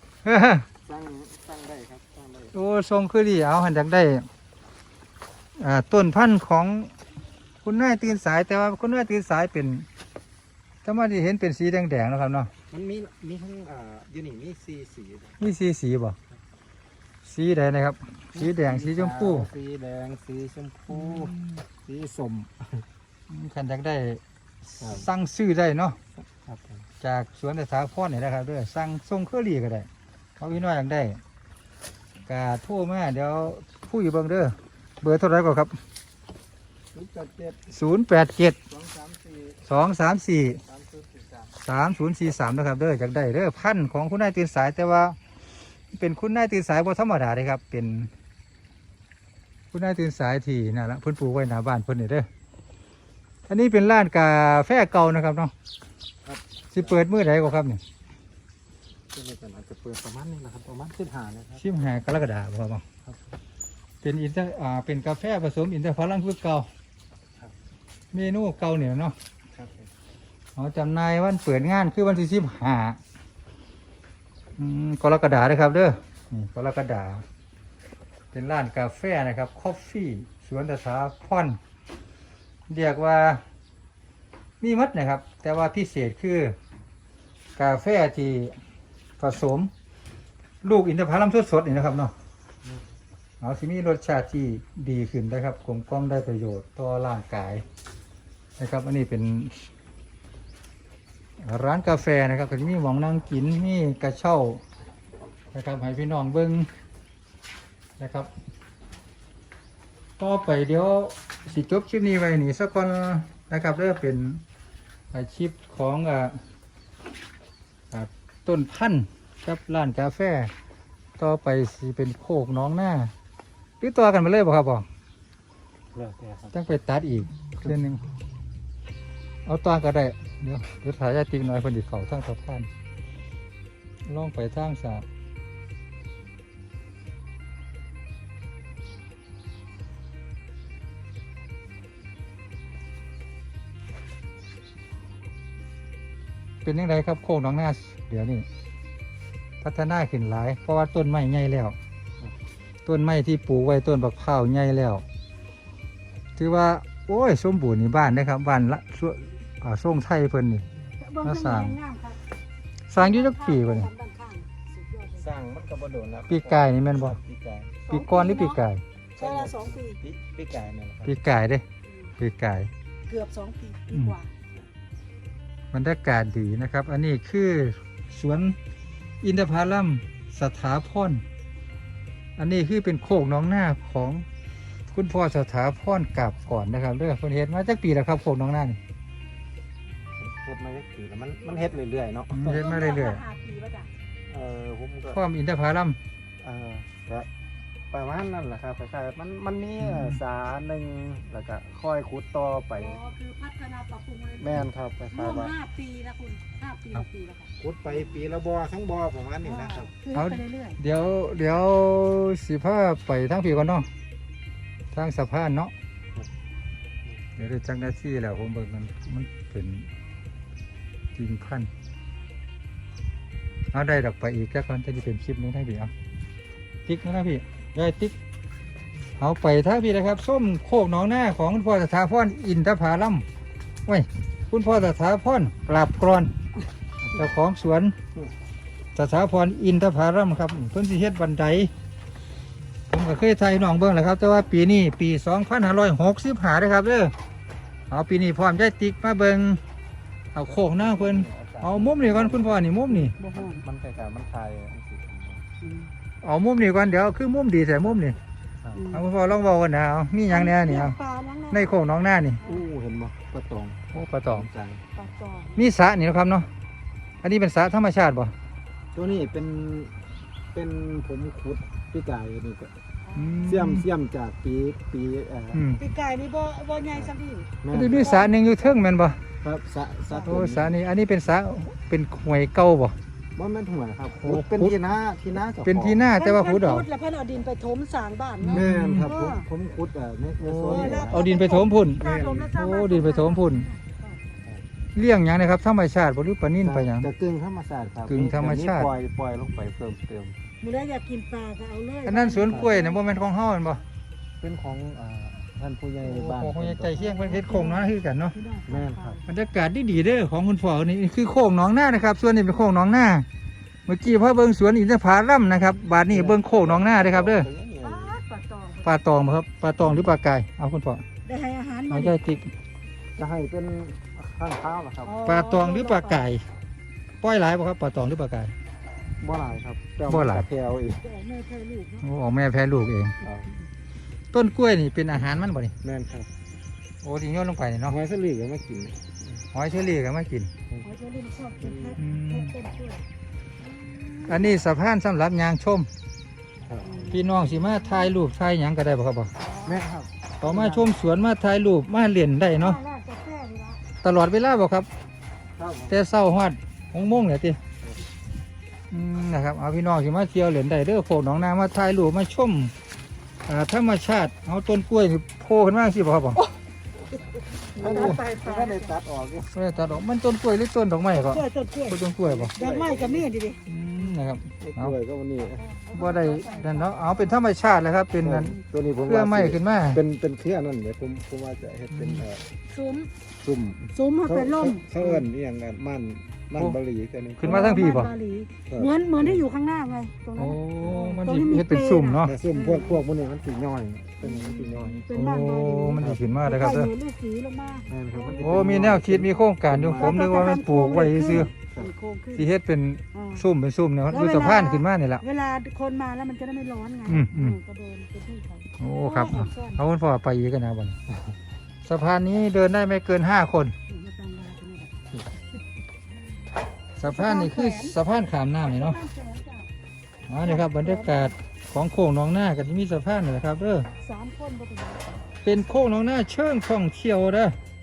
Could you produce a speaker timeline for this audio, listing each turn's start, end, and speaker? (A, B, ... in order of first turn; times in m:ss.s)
0:00.2-0:00.6 A
0:00.8-0:02.5 B
0:02.5-0:04.3 A
0:05.6-0:06.9 A
0:07.6-0:09.9 A
0:10.8-0:12.5 A
0:12.7-0:15.5 B
0:15.4-0:16.2 A
0:17.2-0:19.5 A
0:18.3-0:22.8 B
0:20.9-0:21.6 A
0:23.3-0:26.0 A
0:24.8-0:25.1 B
0:26.2-0:26.8 B
0:27.0-0:29.9 A
0:30.4-0:31.2 A
0:32.3-0:35.7 A
0:36.9-0:37.6 B
0:37.7-0:38.6 A
0:38.7-0:39.6 B
0:39.7-0:40.6 A
0:40.6-0:41.5 B
0:41.6-0:45.2 A
0:45.9-0:48.1 A
0:49.7-0:52.3 A
0:53.5-0:55.5 A
0:56.2-0:57.0 B
0:56.7-0:57.8 A
0:59.1-1:01.6 B
1:01.6-1:02.8 A
1:04.0-1:06.7 A
1:08.1-1:09.2 A
1:09.5-1:09.9 B
1:10.6-1:13.0 A
1:14.6-1:17.2 A
1:18.3-1:21.6 A
1:22.7-1:23.4 A
1:24.6-1:26.6 A
1:27.6-1:28.6 A
1:29.2-1:29.7 A
1:30.6-1:32.1 A
1:33.4-1:37.6 A
1:38.6-1:39.7 A
1:41.4-1:44.6 A
1:45.5-1:46.7 A
1:48.0-1:48.3 A
1:50.2-1:54.4 A
1:55.1-1:56.4 A
1:57.9-2:00.5 A
2:01.2-2:03.1 A
2:03.8-2:04.9 A
2:05.9-2:06.6 B
2:06.5-2:08.0 A
2:09.4-2:12.7 A
2:14.1-2:15.0 A
2:26.6-2:28.4 A
2:29.6-2:31.8 A
2:32.8-2:35.0 A
2:36.4-2:40.6 A
2:41.0-2:42.2 C
2:41.2-2:41.8 A
2:42.9-2:43.9 A
2:43.0-2:45.3 C
2:45.1-2:47.8 B
2:46.3-2:47.2 A
2:47.9-2:48.6 C
2:47.9-2:48.8 A
2:49.2-2:51.1 B
2:49.2-2:50.0 C
2:51.0-2:51.6 A
2:52.2-2:52.7 A
2:53.1-2:54.3 C
2:53.9-2:54.2 A
2:55.7-2:58.6 A
2:59.2-3:01.2 A
3:02.4-3:04.2 A
3:04.9-3:08.8 A
3:10.0-3:12.5 B
3:12.3-3:13.2 A
3:12.4-3:13.9 C
3:14.3-3:15.2 B
3:15.1-3:16.0 A
3:16.4-3:17.3 B
3:17.9-3:23.0 B
3:19.8-3:20.2 A
3:22.8-3:24.6 C
3:24.4-3:25.5 B
3:25.1-3:27.5 C
3:27.6-3:29.9 B
3:29.4-3:30.8 C
3:30.1-3:33.9 A
3:34.9-3:35.7 A
3:37.4-3:39.9 A
3:41.1-3:41.7 A
3:43.7-3:45.9 A
3:46.8-3:48.1 A
3:49.2-3:53.2 A
3:53.8-3:56.3 A
3:57.1-3:57.9 A
3:58.9-4:01.7 A
4:02.9-4:07.1 A
4:07.9-4:09.6 A
4:10.3-4:13.1 A
4:10.5-4:15.4 B
4:13.1-4:13.6 C
4:15.6-4:15.9 C
4:16.2-4:18.2 A
4:18.6-4:18.9 B
4:18.7-4:19.0 C
4:18.9-4:21.0 A
4:20.3-4:21.7 C
4:21.5-4:22.4 A
4:22.4-4:24.8 B
4:23.9-4:24.5 A
4:25.0-4:25.7 C
4:25.6-4:26.5 A
4:27.2-4:28.3 A
4:28.9-4:30.0 B
4:30.5-4:32.7 B
4:33.1-4:33.7 C
4:33.1-4:33.8 A
4:33.4-4:35.7 B
4:35.5-4:35.8 A
4:35.8-4:38.4 C
4:36.9-4:38.3 B
4:37.7-4:39.2 A
4:39.4-4:40.8 B
4:40.2-4:43.0 A
4:43.4-4:46.1 B
4:44.1-4:44.7 A
4:45.6-4:46.9 A
4:46.2-4:49.4 C
4:48.4-4:49.1 A
4:48.5-4:51.2 B
4:50.4-4:53.7 A
4:50.7-4:54.2 C
4:52.1-4:52.5 B
4:54.9-4:57.1 A
4:56.6-5:00.4 B
4:58.1-4:58.9 A
5:00.6-5:03.0 C
5:02.0-5:03.8 A
5:04.4-5:07.0 B
5:06.0-5:08.4 A
5:06.9-5:09.2 C
5:08.7-5:09.2 B
5:09.2-5:13.2 A
5:13.8-5:17.5 A
5:16.1-5:18.2 B
5:17.8-5:18.9 C
5:18.8-5:21.0 A
5:21.2-5:22.2 C
5:21.9-5:22.5 A
5:23.2-5:25.2 B
5:25.0-5:26.3 C
5:25.2-5:26.4 A
5:27.2-5:28.5 A
5:29.2-5:31.1 B
5:30.1-5:30.5 A
5:31.0-5:32.0 C
5:32.0-5:33.2 A
5:33.2-5:33.5 B
5:34.3-5:35.7 A
5:35.8-5:36.3 B
5:37.0-5:38.0 A
5:37.9-5:39.3 B
5:39.5-5:40.5 A
5:40.8-5:43.0 C
5:41.6-5:42.0 B
5:42.0-5:42.5 A
5:43.6-5:44.6 C
5:44.3-5:45.9 A
5:46.6-5:47.1 B
5:46.8-5:48.1 C
5:47.1-5:49.3 A
5:49.4-5:49.8 C
5:49.6-5:50.9 B
5:50.4-5:52.8 A
5:52.4-5:53.8 C
5:54.0-5:54.9 A
5:55.6-5:56.0 B
5:55.9-5:57.6 A
5:58.9-6:02.7 A
6:03.4-6:06.4 A
6:07.7-6:09.0 C
6:07.7-6:09.5 B
6:07.8-6:08.2 A
6:09.5-6:12.5 A
6:11.2-6:12.0 C
6:12.2-6:13.3 B
6:12.5-6:13.6 C
6:13.7-6:14.9 A
6:14.6-6:15.7 B
6:15.6-6:17.4 C
6:15.9-6:20.0 A
6:18.2-6:22.5 B
6:21.9-6:22.2 A
6:22.7-6:23.1 C
6:23.4-6:27.6 B
6:23.9-6:25.2 C
6:27.4-6:28.1 A
6:27.4-6:33.0 C
6:28.7-6:29.4 B
6:30.4-6:32.3 A
6:32.2-6:35.0 B
6:34.2-6:39.0 C
6:35.1-6:36.9 A
6:36.0-6:36.3 B
6:37.9-6:40.2 B
6:38.4-6:41.5 A
6:40.0-6:42.5 C
6:41.4-6:41.9 B
6:42.4-6:45.2 A
6:43.1-6:43.4 C
6:44.1-6:49.8 C
6:47.0-6:47.6 A
6:48.8-6:51.0 A
6:51.8-6:53.7 A
6:53.9-6:55.2 C
6:57.0-6:59.0 A
6:57.0-6:58.0 C
6:58.6-6:59.7 C
7:00.3-7:03.9 A
7:00.4-7:01.3 C
7:04.0-7:05.3 C
7:05.4-7:07.6 A